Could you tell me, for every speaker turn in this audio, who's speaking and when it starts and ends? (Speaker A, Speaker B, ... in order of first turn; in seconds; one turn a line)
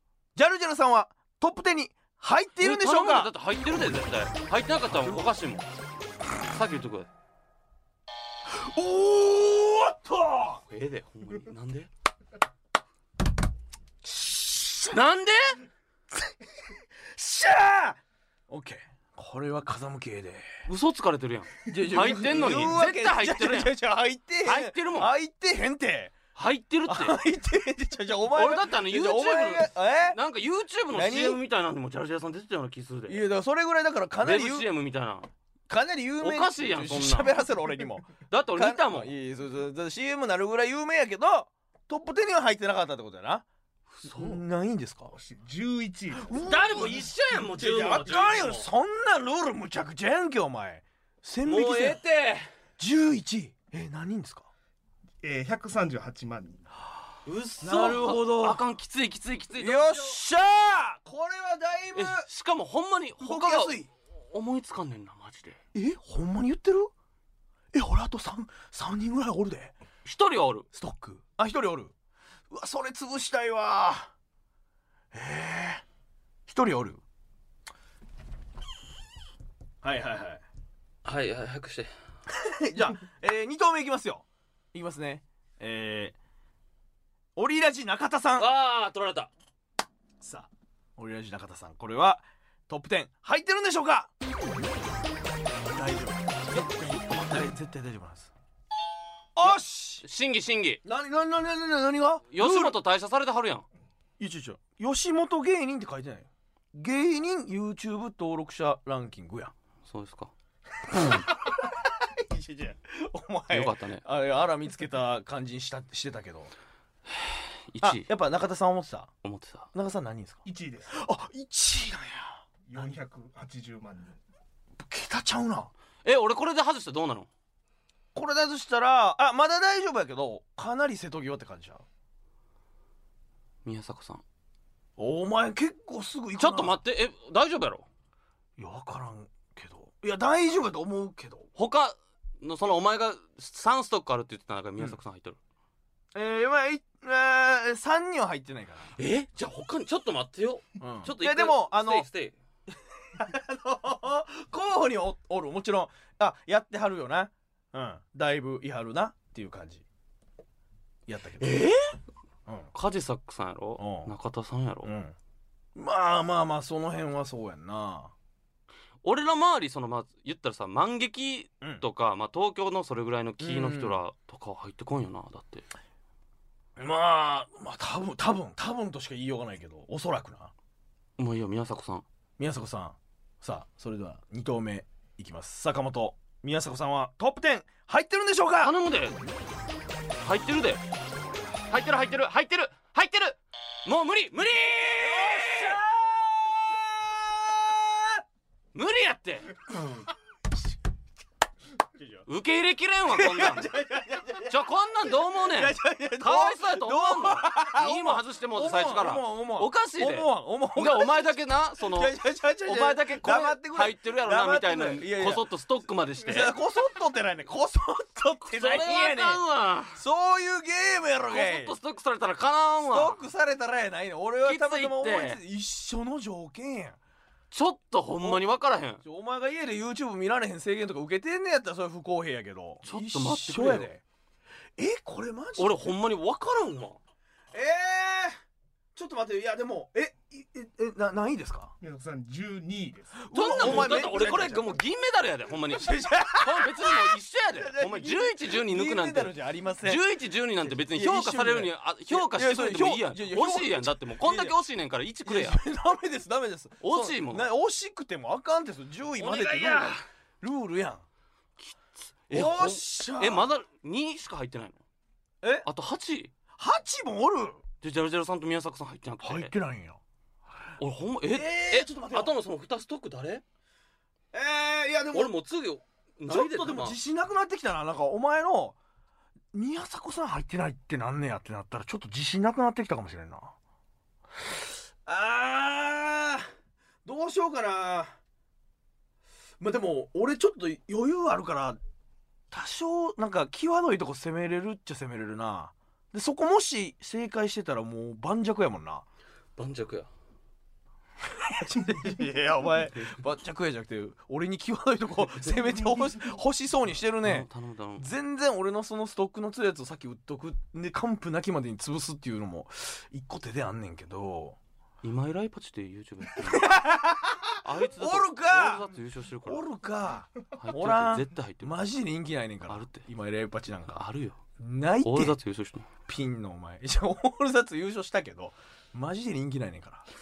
Speaker A: 0.3-3.3
Speaker B: 2.6-5.7
Speaker A: 4.9-5.2
Speaker B: 6.4-7.1
Speaker A: 8.5-10.6
Speaker B: 10.7-11.9
Speaker A: 14.1-15.0
Speaker B: 14.9-15.6
Speaker A: 17.0-20.6
Speaker B: 20.7-23.8
Speaker A: 21.7-26.1
Speaker B: 24.4-25.1
Speaker B: 26.4-27.2
Speaker A: 26.9-30.2
Speaker B: 28.3-33.2
Speaker A: 30.9-31.4
Speaker A: 33.1-34.7
Speaker B: 34.2-35.3
Speaker A: 35.7-43.5
Speaker B: 36.2-37.4
Speaker B: 38.3-39.1
Speaker B: 43.9-44.4
Speaker A: 44.0-45.1
Speaker C: 45.1-46.6
Speaker A: 46.2-52.0
Speaker B: 46.3-48.7
Speaker B: 51.5-52.5
Speaker A: 52.8-54.5
Speaker C: 55.2-56.7
Speaker B: 57.3-60.2
Speaker A: 57.6-58.6
Speaker A: 59.6-62.3
Speaker B: 62.0-65.6
Speaker A: 63.2-63.9
Speaker A: 65.7-66.9
Speaker A: 67.7-69.8
Speaker B: 70.0-70.7
Speaker A: 70.7-71.9
Speaker A: 72.5-74.1
Speaker A: 75.1-75.8
Speaker A: 76.5-77.0
Speaker A: 79.8-80.4
Speaker B: 81.0-81.9
Speaker A: 82.3-86.2
Speaker A: 87.4-88.5
Speaker B: 88.4-89.3
Speaker A: 90.2-94.1
Speaker A: 95.7-98.3
Speaker B: 96.5-97.5
Speaker A: 99.4-100.0
Speaker B: 99.5-100.8
Speaker A: 100.8-102.8
Speaker B: 102.3-103.7
Speaker A: 104.2-109.5
Speaker B: 109.8-110.3
Speaker A: 110.9-116.5
Speaker B: 113.5-114.0
Speaker B: 117.1-118.0
Speaker A: 117.8-119.1
Speaker B: 119.2-119.7
Speaker A: 119.7-122.4
Speaker C: 120.5-121.0
Speaker C: 122.7-124.2
Speaker A: 124.8-125.7
Speaker B: 126.0-127.3
Speaker A: 128.2-131.8
Speaker B: 133.7-134.2
Speaker A: 135.0-136.8
Speaker B: 136.4-137.9
Speaker A: 138.6-141.5
Speaker B: 141.6-145.4
Speaker A: 146.1-148.9
Speaker B: 149.0-152.4
Speaker A: 150.8-152.1
Speaker A: 152.7-159.8
Speaker A: 161.1-161.7
Speaker B: 161.4-161.9
Speaker B: 162.7-164.9
Speaker A: 163.8-164.1
Speaker A: 164.8-165.2
Speaker A: 165.8-168.1
Speaker B: 169.0-175.7
Speaker A: 173.4-174.0
Speaker A: 176.8-180.5
Speaker B: 181.2-182.1
Speaker A: 182.4-188.7
Speaker B: 188.6-189.2
Speaker B: 190.2-190.8
Speaker B: 191.6-195.8
Speaker A: 195.0-198.2
Speaker B: 198.7-199.6
Speaker A: 202.0-202.3
Speaker B: 202.3-203.7
Speaker A: 203.1-204.6
Speaker B: 204.5-216.5
Speaker A: 205.4-215.5
Speaker A: 216.2-219.4
Speaker B: 218.5-220.0
Speaker A: 219.9-221.8
Speaker B: 221.3-223.2
Speaker A: 222.9-227.0
Speaker B: 224.4-225.4
Speaker B: 227.5-229.0
Speaker A: 229.0-234.0
Speaker B: 232.8-233.9
Speaker A: 234.8-235.9
Speaker B: 235.6-237.0
Speaker A: 237.5-238.4
Speaker A: 238.9-241.7
Speaker C: 241.8-243.3
Speaker A: 243.2-244.7
Speaker B: 243.3-255.6
Speaker A: 245.7-254.6
Speaker A: 255.2-261.1
Speaker B: 256.8-257.5
Speaker B: 259.2-260.1
Speaker B: 261.6-264.8
Speaker A: 262.3-263.5
Speaker A: 265.4-265.7
Speaker B: 265.6-266.3
Speaker A: 266.6-267.6
Speaker B: 267.8-269.5
Speaker A: 269.2-270.0
Speaker B: 270.8-273.4
Speaker A: 271.3-272.4
Speaker A: 274.3-275.3
Speaker B: 275.1-277.0
Speaker A: 276.3-278.8
Speaker A: 279.5-283.6
Speaker A: 285.1-286.5
Speaker A: 287.1-288.2
Speaker A: 289.6-291.8
Speaker A: 292.5-299.1
Speaker B: 299.6-300.1
Speaker A: 301.2-314.6
Speaker B: 307.2-308.1
Speaker B: 315.0-316.8
Speaker A: 316.4-318.8
Speaker B: 317.6-319.6
Speaker A: 319.5-324.0
Speaker B: 320.6-321.9
Speaker B: 322.7-323.1
Speaker B: 323.9-324.4
Speaker A: 324.6-325.4
Speaker B: 325.0-325.9
Speaker A: 326.1-330.1